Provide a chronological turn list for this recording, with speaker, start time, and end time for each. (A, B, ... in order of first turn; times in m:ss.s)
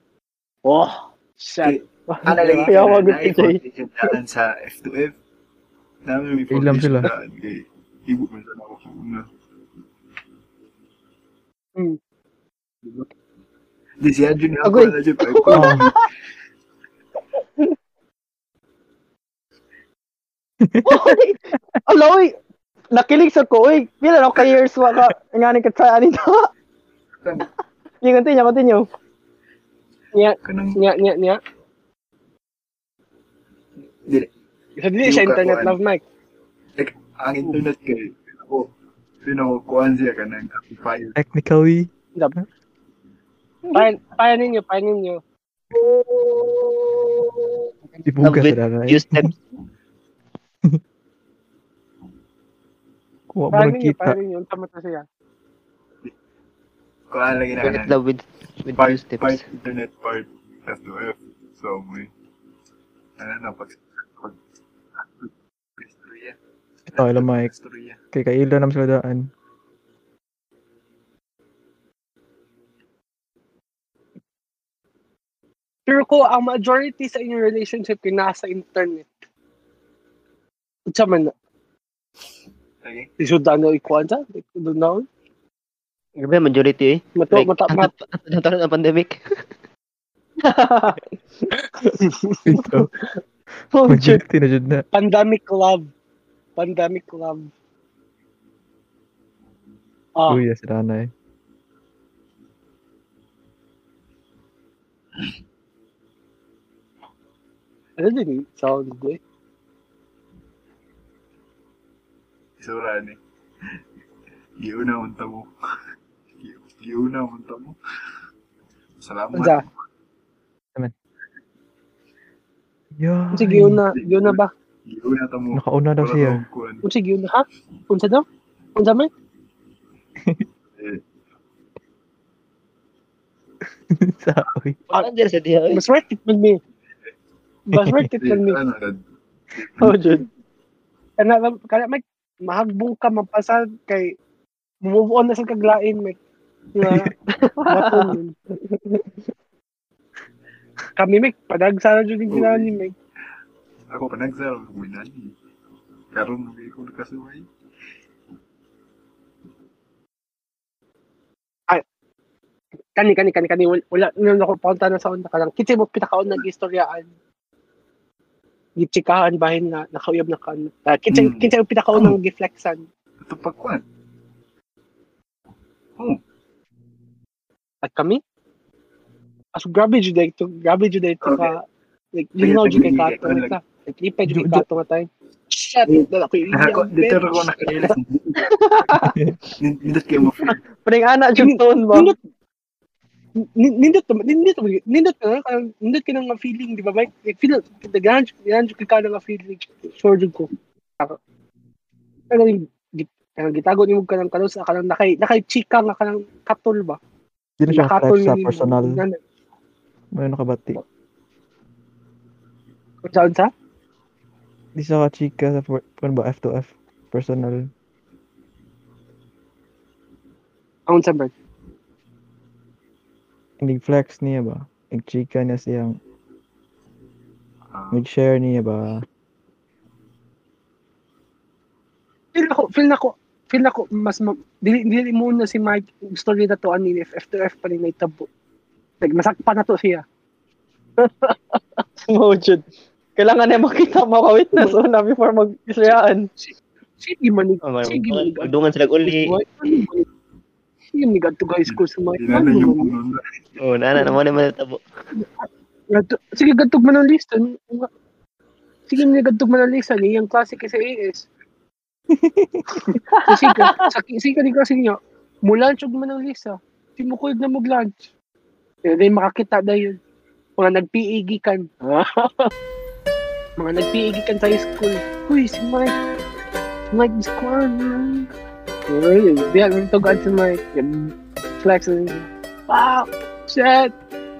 0:00.6-0:02.7 A
0:01.6-0:05.2 B
0:02.8-0:03.6 C
0:06.0-0:09.3 B
0:06.5-0:07.1 D
0:14.0-0:16.1 B
0:14.6-0:15.9 C
0:15.5-0:15.9 D
0:20.6-0:21.2 D
0:20.9-0:21.4 C
0:21.9-0:22.4 C
0:22.9-0:26.5 C
0:28.0-0:28.9 C
0:30.1-0:31.4 A
0:30.4-0:30.8 B
0:34.8-0:36.0 A
0:35.0-0:35.8 B
0:36.8-0:38.7 B
0:39.2-0:41.2 B
0:41.2-0:41.9 D
0:42.2-0:42.4 A
0:43.7-0:45.2 A
0:45.9-0:46.7 C
0:48.0-0:49.3 D
0:48.2-0:49.3 E
0:53.3-0:54.2 D
0:53.5-0:55.1 A
0:57.1-0:58.0 B
0:57.6-0:59.4 E
0:58.8-1:02.1 B
1:03.2-1:04.4 B
1:05.0-1:06.4 B
1:06.9-1:08.0 B
1:07.0-1:07.5 D
1:08.1-1:09.3 D
1:15.9-1:19.1 A
1:20.9-1:21.3 A
1:22.8-1:23.1 B
1:23.2-1:25.1 A
1:26.2-1:29.2 E
1:27.2-1:27.9 A
1:30.6-1:30.8 C
1:32.0-1:32.4 A
1:32.5-1:32.9 D
1:33.7-1:34.2 C
1:33.9-1:34.8 D
1:34.9-1:35.9 A
1:36.6-1:37.5 A
1:40.2-1:40.4 A
1:40.3-1:41.1 D
1:48.0-1:49.2 A
1:52.6-1:53.2 B
1:54.6-1:55.5 B
1:56.4-1:57.8 B
1:59.0-1:59.7 B
1:59.3-1:59.6 A
2:03.0-2:03.8 D
2:03.3-2:04.5 A
2:03.7-2:06.8 B
2:05.5-2:06.4 D
2:06.8-2:08.2 A
2:08.8-2:09.1 A
2:14.0-2:14.8 D
2:14.9-2:15.8 E
2:15.7-2:16.6 A
2:17.7-2:18.6 A
2:17.7-2:18.1 D
2:18.1-2:19.0 B
2:19.6-2:20.0 B
2:19.8-2:20.3 C
2:21.2-2:24.2 A
2:24.8-2:26.2 A
2:26.8-2:28.4 A
2:28.6-2:29.0 C
2:31.0-2:33.0 A
2:32.3-2:32.8 B
2:33.9-2:35.3 B
2:36.1-2:37.5 B
2:43.0-2:47.1 A
2:48.8-2:52.8 A
2:51.1-2:52.2 B
2:53.2-2:53.8 B
2:57.8-2:58.2 A
2:59.5-3:08.0 A
3:01.2-3:01.5 B
3:02.4-3:03.6 B
3:04.3-3:04.6 D
3:05.9-3:08.4 B
3:08.6-3:09.2 C
3:09.6-3:10.6 B
3:10.8-3:12.1 C
3:11.4-3:12.2 A
3:13.4-3:21.2 A
3:22.3-3:27.0 A
3:27.6-3:29.0 D
3:27.7-3:29.2 A
3:30.1-3:30.8 D
3:33.0-3:33.5 A
3:34.8-3:37.7 D
3:40.9-3:41.3 A
3:43.6-3:46.0 D
3:47.7-3:48.0 B
3:47.9-3:49.0 D
3:52.3-3:58.3 A
3:59.0-4:00.0 A
4:01.0-4:01.8 A
4:02.1-4:02.6 C
4:03.9-4:05.5 C
4:04.4-4:04.8 D
4:04.5-4:04.8 A
4:05.6-4:06.3 D
4:05.8-4:10.0 A
4:07.6-4:09.8 E
4:10.9-4:13.0 A
4:11.6-4:13.2 B
4:13.6-4:14.8 E
4:15.2-4:17.9 A
4:18.9-4:21.3 A
4:22.2-4:22.5 D
4:22.8-4:28.1 A
4:23.2-4:23.8 C
4:28.8-4:30.0 A
4:30.6-4:32.5 A
4:33.6-4:36.0 A
4:36.9-4:38.3 A
4:38.9-4:43.9 A